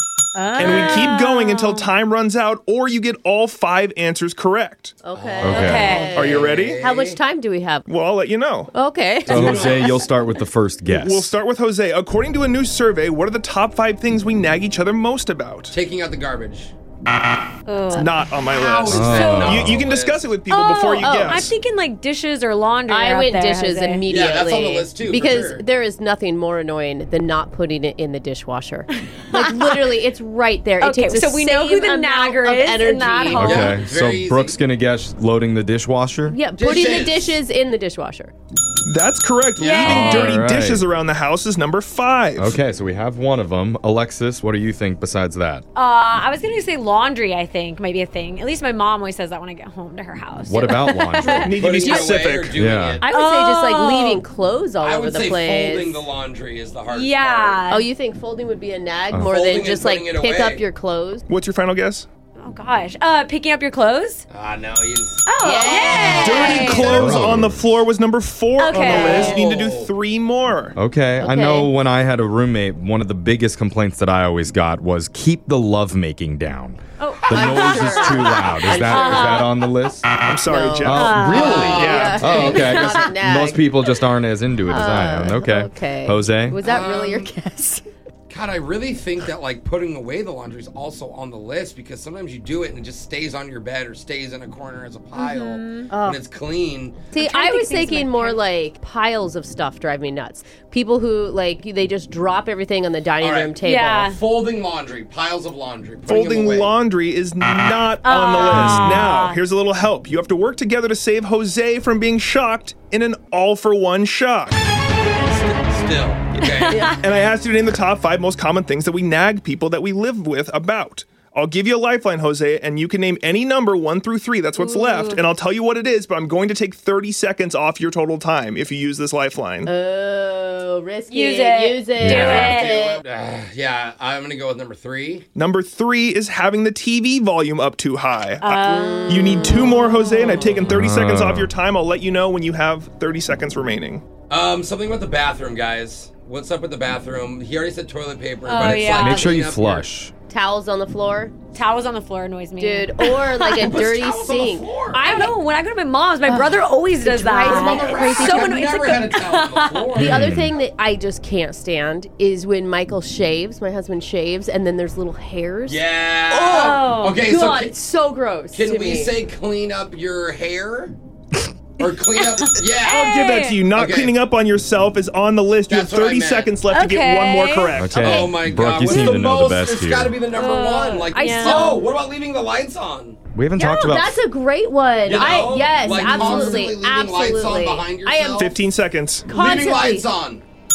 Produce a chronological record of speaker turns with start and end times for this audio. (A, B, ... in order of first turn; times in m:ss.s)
0:00.4-0:01.9 A
0:00.6-0:05.0 B
0:05.0-0:07.9 C
0:05.1-0:07.2 D
0:05.4-0:05.9 E
0:05.6-0:06.2 A
0:06.1-0:06.8 B
0:07.9-0:08.7 B
0:08.7-0:09.8 C
0:09.3-0:10.1 D
0:09.3-0:11.3 E
0:10.9-0:15.8 B
0:15.7-0:16.7 D
0:17.7-0:19.8 A
0:17.9-0:21.6 B
0:18.5-0:20.3 D
0:18.9-0:19.8 E
0:20.5-0:24.0 A
0:21.0-0:21.4 C
0:22.9-0:33.6 C
0:24.1-0:25.6 D
0:29.2-0:30.0 A
0:30.8-0:33.8 A
0:33.4-0:36.4 E
0:33.4-0:34.6 D
0:36.3-0:38.3 C
0:36.6-0:37.4 D
0:38.9-0:42.6 B
0:39.6-0:40.4 A
0:39.8-0:40.8 E
0:42.4-0:45.6 E
0:45.8-0:51.5 A
0:50.5-0:51.6 E
0:51.3-0:52.6 B
0:51.5-0:53.0 D
0:52.6-0:53.0 E
0:53.0-0:56.1 C
0:53.1-0:54.2 A
0:54.8-0:57.6 D
0:56.9-0:57.9 A
0:57.7-1:01.2 C
0:59.2-1:00.6 D
1:01.3-1:02.1 B
1:02.4-1:04.2 A
1:04.3-1:07.1 D
1:05.3-1:07.1 A
1:05.4-1:06.1 C
1:06.1-1:10.8 B
1:06.6-1:07.7 E
1:08.6-1:09.4 A
1:08.8-1:09.9 D
1:10.8-1:20.1 E
1:11.2-1:11.7 C
1:17.0-1:19.5 A
1:17.3-1:19.5 C
1:20.2-1:22.2 B
1:20.4-1:23.7 C
1:20.8-1:26.6 E
1:21.0-1:21.5 A
1:21.3-1:22.7 D
1:22.1-1:23.1 A
1:24.7-1:27.8 C
1:26.6-1:27.3 D
1:28.3-1:37.1 D
1:35.2-1:35.9 A
1:35.9-1:36.2 C
1:37.1-1:44.1 C
1:37.1-1:38.4 A
1:43.2-1:46.8 D
1:43.6-1:44.2 A
1:46.1-1:54.6 B
1:48.0-1:49.4 A
1:55.2-1:56.8 D
1:56.7-1:57.0 A
1:56.8-2:09.7 B
2:04.6-2:05.1 A
2:09.6-2:13.0 C
2:11.1-2:12.7 A
2:12.0-2:12.6 E
2:12.1-2:15.3 D
2:15.4-2:24.0 B
2:18.4-2:20.3 A
2:18.6-2:19.6 C
2:20.3-2:20.7 D
2:20.6-2:21.5 E
2:24.3-2:29.9 D
2:28.4-2:29.3 A
2:28.6-2:30.1 E
2:30.3-2:31.4 C
2:31.5-2:33.9 A
2:32.6-2:34.7 C
2:33.6-2:35.3 D
2:34.9-2:40.2 A
2:36.3-2:38.5 C
2:37.4-2:40.2 D
2:40.0-2:49.2 C
2:40.0-2:40.5 E
2:45.7-2:47.8 D
2:46.6-2:47.2 A
2:48.5-2:50.9 D
2:51.8-2:53.1 D
2:52.2-2:53.7 A
2:52.9-2:58.3 B
2:53.7-2:54.2 D
2:55.7-2:56.6 D
2:56.7-2:57.8 A
2:57.8-3:00.2 E
2:57.9-3:03.2 D
3:00.3-3:01.8 A
3:01.4-3:01.8 C
3:03.3-3:04.2 E
3:03.6-3:08.6 C
3:05.0-3:08.5 D
3:05.8-3:06.7 A
3:08.4-3:09.4 B
3:09.3-3:10.1 C
3:09.3-3:10.4 D
3:09.4-3:09.8 A